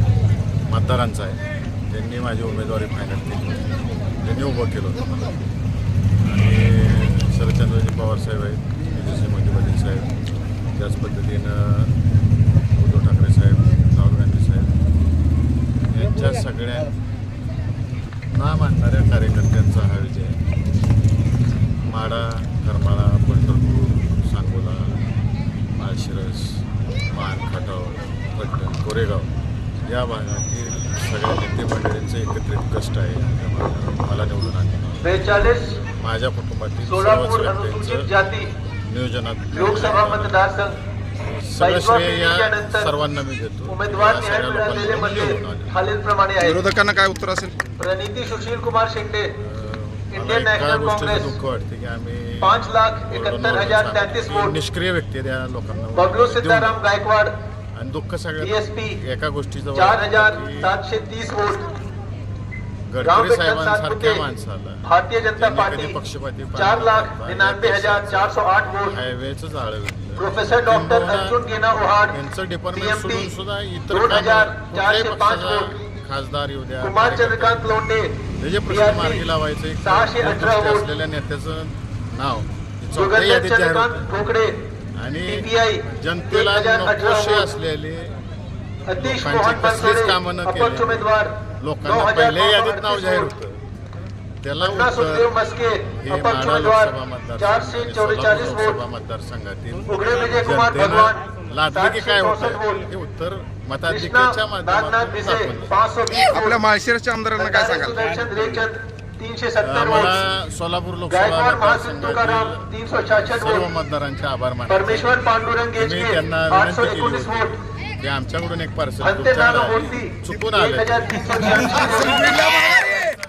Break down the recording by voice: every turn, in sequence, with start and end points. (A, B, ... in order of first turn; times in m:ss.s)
0:00.7-0:05.4 A
0:06.2-0:12.0 A
0:12.7-0:14.8 A
0:15.9-0:17.0 A
0:18.3-0:20.4 A
0:21.8-0:25.0 A
0:25.7-0:29.3 A
0:29.8-0:35.1 A
0:35.0-0:35.8 B
0:35.9-0:38.1 A
0:36.9-0:38.5 B
0:38.9-0:40.4 A
0:39.5-0:40.8 B
0:41.2-0:45.7 A
0:41.6-0:43.0 B
0:43.7-0:46.6 B
0:46.4-0:47.6 C
0:47.8-0:49.3 B
0:49.4-0:56.7 A
0:50.1-0:51.4 B
0:52.4-0:54.6 B
0:55.9-0:57.3 B
0:57.7-1:00.7 A
0:58.4-0:59.0 B
0:59.7-1:01.6 B
1:02.9-1:08.3 A
1:03.0-1:04.2 B
1:04.8-1:06.0 B
1:06.5-1:09.0 B
1:08.8-1:11.4 A
1:10.2-1:12.2 B
1:12.1-1:17.8 A
1:12.7-1:13.3 B
1:13.9-1:15.7 B
1:16.8-1:19.3 B
1:18.4-1:24.2 A
1:19.8-1:20.8 B
1:23.0-1:24.6 B
1:25.0-1:28.2 A
1:25.3-1:27.5 B
1:28.9-1:33.3 B
1:29.0-1:33.6 A
1:34.4-1:35.3 A
1:34.6-1:38.8 B
1:35.9-1:45.7 A
1:39.9-1:41.2 B
1:41.7-1:42.9 B
1:43.9-1:46.6 B
1:46.3-1:48.4 C
1:47.4-1:50.2 B
1:49.6-1:52.7 A
1:51.1-1:53.7 B
1:53.2-1:55.2 A
1:54.7-1:57.6 B
1:55.8-2:02.4 A
1:59.0-2:02.9 B